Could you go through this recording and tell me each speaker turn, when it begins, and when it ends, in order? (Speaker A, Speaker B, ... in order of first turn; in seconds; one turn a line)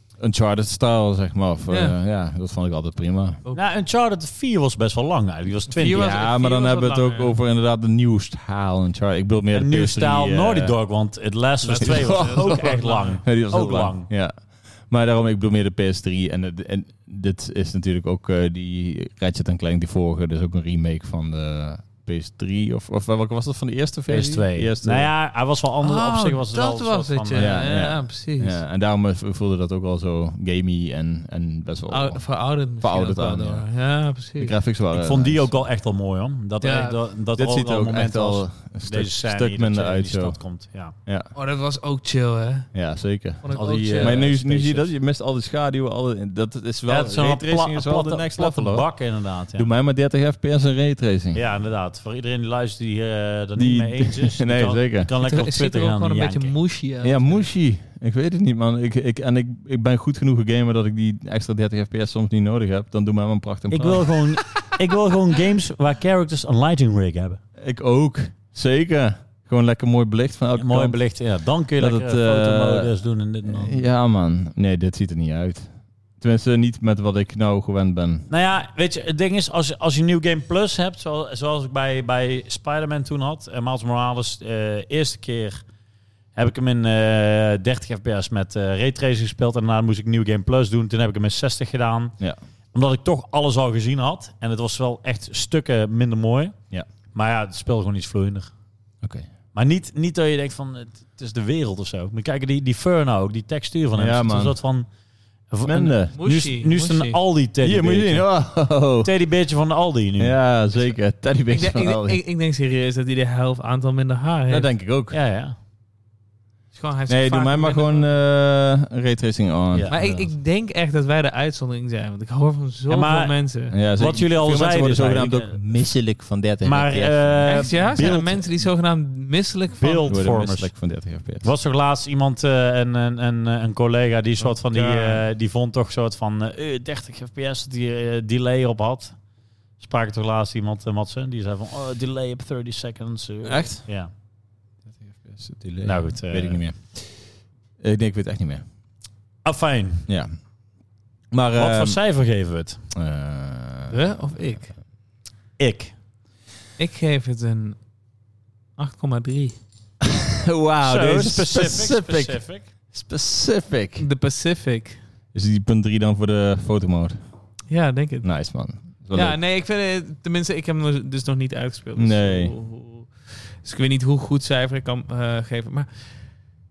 Speaker A: 0.2-3.4
Speaker B: 1.7-1.9
Speaker C: 3.5-6.1
Speaker B: 5.7-7.4
Speaker A: 5.9-10.7
Speaker C: 9.5-14.1
Speaker B: 11.6-13.2
Speaker A: 11.8-25.1
Speaker C: 24.1-27.5
Speaker B: 25.8-28.6
Speaker A: 27.4-33.7
Speaker B: 31.9-34.5
Speaker A: 34.4-35.5
Speaker C: 34.9-41.0
Speaker B: 36.6-37.0
Speaker A: 37.4-40.4
Speaker A: 41.0-41.3
Speaker B: 41.3-42.7
Speaker A: 42.7-48.9
Speaker B: 43.4-44.2
Speaker C: 43.5-44.9
Speaker C: 46.9-49.7
Speaker A: 49.5-51.4
Speaker C: 51.3-56.5
Speaker A: 53.6-55.1
Speaker B: 55.2-57.5
Speaker A: 57.0-64.2
Speaker C: 63.7-67.4
Speaker A: 67.6-71.0
Speaker C: 70.5-73.8
Speaker A: 71.8-72.9
Speaker A: 73.4-75.7
Speaker A: 76.2-78.3
Speaker C: 78.3-85.6
Speaker C: 86.3-92.2
Speaker C: 92.7-96.6
Speaker C: 97.1-98.5
Speaker A: 99.0-99.3
Speaker C: 99.5-104.9
Speaker A: 104.0-104.5
Speaker C: 105.5-108.3
Speaker A: 105.6-106.1
Speaker B: 106.1-107.2
Speaker A: 107.6-109.1
Speaker C: 109.0-110.4
Speaker A: 110.2-112.2
Speaker B: 111.5-114.7
Speaker A: 114.5-115.2
Speaker C: 115.1-115.5
Speaker B: 116.7-118.0
Speaker A: 117.1-120.3
Speaker C: 119.7-120.2
Speaker B: 119.9-123.7
Speaker C: 122.9-123.4
Speaker A: 123.7-128.1
Speaker C: 123.9-125.6
Speaker C: 126.6-128.5
Speaker B: 127.4-130.1
Speaker C: 129.8-130.7
Speaker A: 130.1-131.5
Speaker C: 131.4-139.2
Speaker B: 134.8-135.1
Speaker C: 139.8-144.1
Speaker A: 143.4-143.8
Speaker A: 145.2-147.3
Speaker C: 145.8-146.6
Speaker A: 147.8-148.6
Speaker C: 149.4-150.1
Speaker A: 151.3-152.0
Speaker C: 151.5-152.8
Speaker A: 152.9-154.3
Speaker B: 153.9-154.7
Speaker C: 155.6-155.9
Speaker B: 156.8-157.8
Speaker B: 158.8-159.6
Speaker A: 160.0-164.1
Speaker C: 160.8-162.7
Speaker B: 164.0-165.0
Speaker A: 165.3-167.2
Speaker B: 167.7-168.3
Speaker A: 168.2-169.4
Speaker B: 169.1-175.9
Speaker A: 171.9-172.5